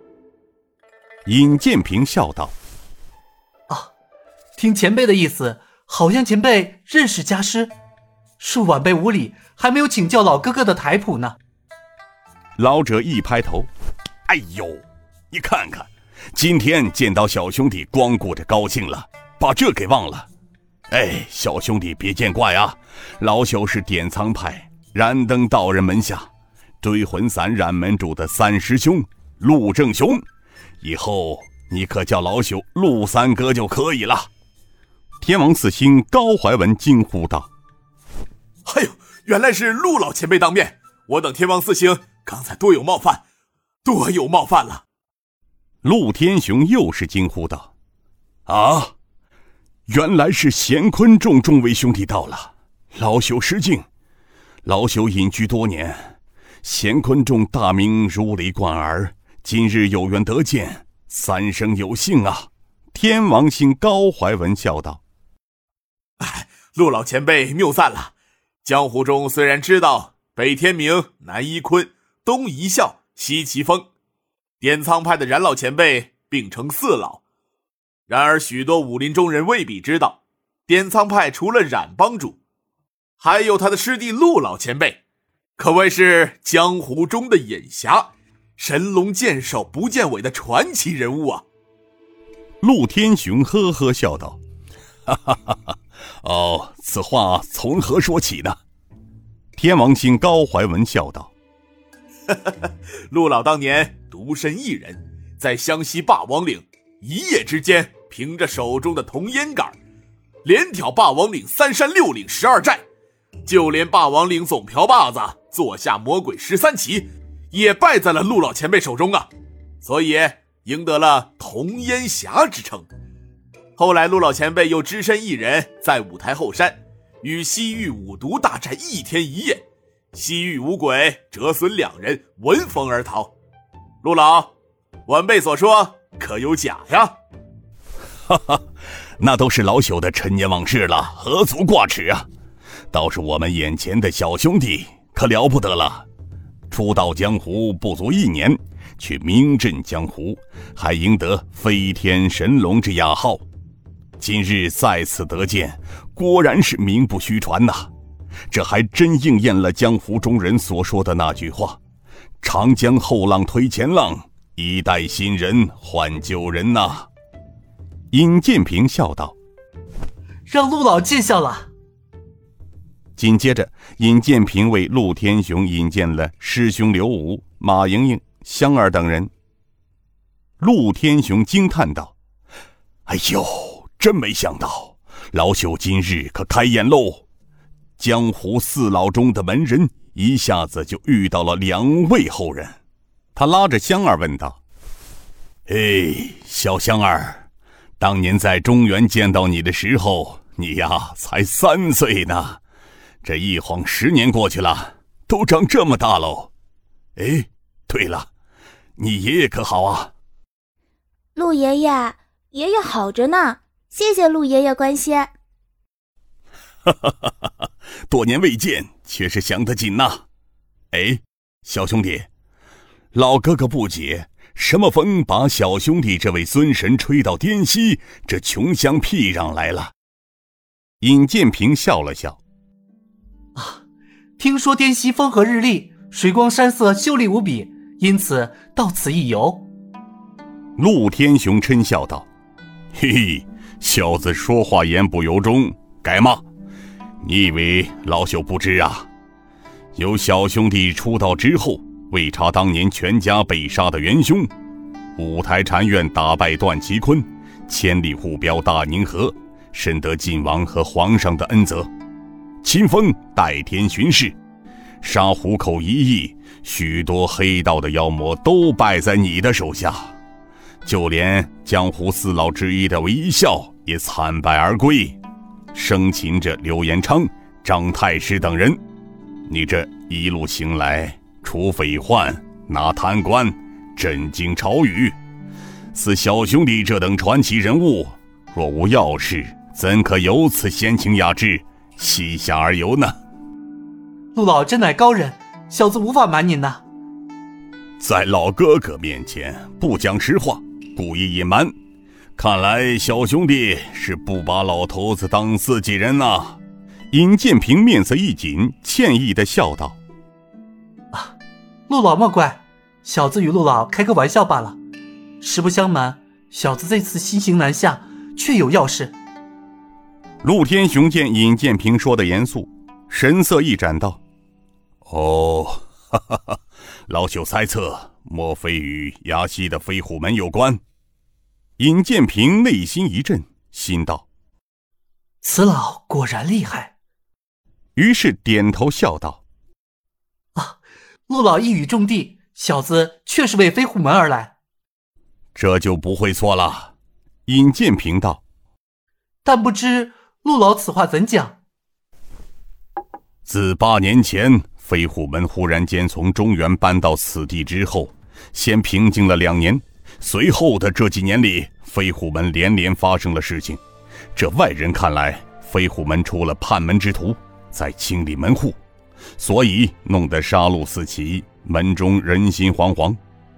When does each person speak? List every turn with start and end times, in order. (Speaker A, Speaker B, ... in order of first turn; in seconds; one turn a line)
Speaker A: 1.3-2.5
Speaker B: 4.6-7.7
Speaker B: 8.4-11.4
Speaker A: 12.6-13.7
Speaker A: 14.3-20.3
Speaker A: 20.9-26.3
Speaker A: 26.8-30.2
Speaker A: 30.8-34.3
Speaker A: 35.2-37.5
Speaker C: 38.7-43.2
Speaker C: 43.9-44.8
Speaker A: 45.8-47.7
Speaker A: 48.5-48.9
Speaker A: 49.9-53.9
Speaker A: 54.6-65.0
Speaker C: 66.2-68.1
Speaker C: 68.6-73.9
Speaker C: 74.6-77.2
Speaker C: 78.1-82.4
Speaker C: 83.2-85.0
Speaker C: 85.6-91.4
Speaker A: 92.6-94.4
Speaker A: 95.1-95.6
Speaker A: 96.2-98.6
Speaker A: 99.6-101.3
Speaker C: 102.3-109.8
Speaker C: 110.4-112.8
Speaker C: 113.5-119.3
Speaker C: 119.8-122.9
Speaker C: 123.8-129.6
Speaker C: 130.1-133.3
Speaker C: 134.0-134.5
Speaker C: 135.1-137.1
Speaker A: 138.3-138.6
Speaker A: 139.2-142.3
Speaker A: 142.9-146.1
Speaker A: 146.7-153.4
Speaker A: 154.2-157.9
Speaker A: 158.5-161.8
Speaker A: 162.4-167.1
Speaker A: 168.1-169.4
Speaker B: 170.5-171.7
Speaker A: 173.2-179.3
Speaker A: 180.6-182.1
Speaker A: 183.1-187.2
Speaker A: 188.0-192.8
Speaker A: 193.3-194.6
Speaker A: 195.7-197.5
Speaker A: 198.0-202.6
Speaker A: 203.2-206.5
Speaker A: 207.2-208.3
Speaker A: 209.0-210.1
Speaker D: 211.4-215.3
Speaker A: 216.9-217.3
Speaker A: 218.1-220.2
Speaker A: 220.9-222.3
Speaker A: 223.1-229.9
Speaker A: 231.0-232.4
Speaker B: 233.6-233.8
Speaker B: 234.4-239.7
Speaker A: 240.8-242.3
Speaker A: 242.9-246.4
Speaker A: 247.2-249.1
Speaker A: 250.0-254.5
Speaker A: 255.2-261.9
Speaker A: 262.6-264.4
Speaker A: 265.0-270.1
Speaker A: 270.9-275.2
Speaker A: 275.7-278.8
Speaker A: 279.5-285.1
Speaker A: 285.9-293.1
Speaker B: 294.4-296.8
Speaker A: 298.0-301.7
Speaker A: 302.4-306.6
Speaker A: 307.1-310.0
Speaker B: 311.9-314.8
Speaker B: 315.4-319.1
Speaker A: 320.4-324.2
Speaker A: 325.1-326.6
Speaker A: 327.1-330.8
Speaker A: 331.8-334.3
Speaker B: 335.4-336.9
Speaker A: 338.0-339.4
Speaker B: 340.6-344.5
Speaker A: 345.5-346.9
Speaker A: 347.5-348.4
Speaker B: 349.4-351.6
Speaker A: 353.5-363.8
Speaker A: 364.4-368.8
Speaker A: 369.4-373.2